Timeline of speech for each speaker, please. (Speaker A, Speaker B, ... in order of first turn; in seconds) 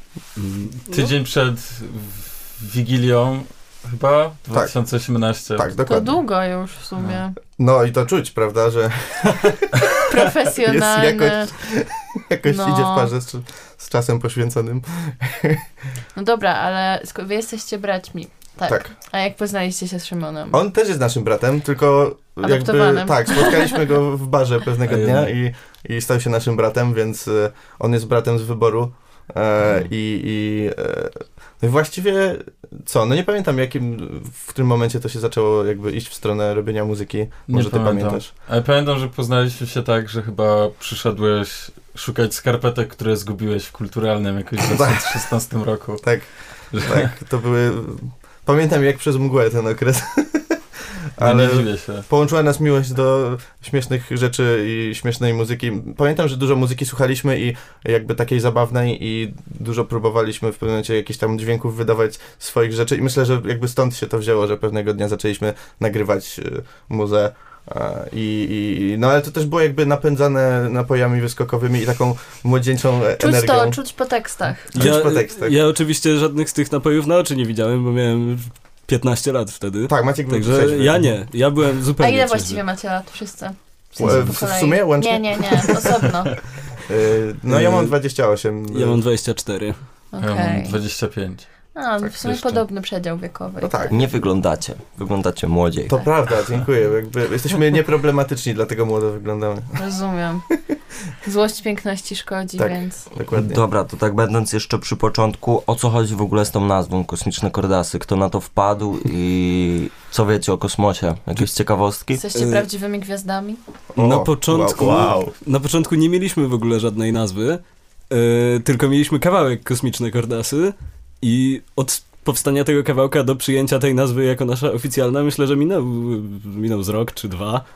Speaker A: 0.4-1.1, 74.7-82.6, 87.5-87.9, 88.7-89.8, 112.3-112.7, 114.0-127.6
Speaker B: 0.9-5.7, 24.9-25.3, 37.5-46.1, 46.7-47.1, 51.2-52.0, 90.2-91.5, 92.2-92.6
Speaker C: 5.5-6.1, 7.6-15.6, 18.6-18.9, 20.5-38.3, 44.6-45.3, 46.0-46.3, 46.8-73.8, 74.7-75.6, 79.9-81.1, 84.0-86.0, 86.8-89.0, 93.6-94.0, 95.9-99.8, 102.5-103.6, 113.9-115.2
Speaker D: 5.8-7.3, 10.1-11.5, 12.4-13.1, 16.1-20.6, 22.4-23.8, 73.2-74.7, 82.0-86.3, 90.1-90.7, 91.7-93.9, 99.8-100.5, 101.2-103.0, 112.2-113.6
Speaker E: 93.9-96.1, 103.3-112.2, 114.8-115.3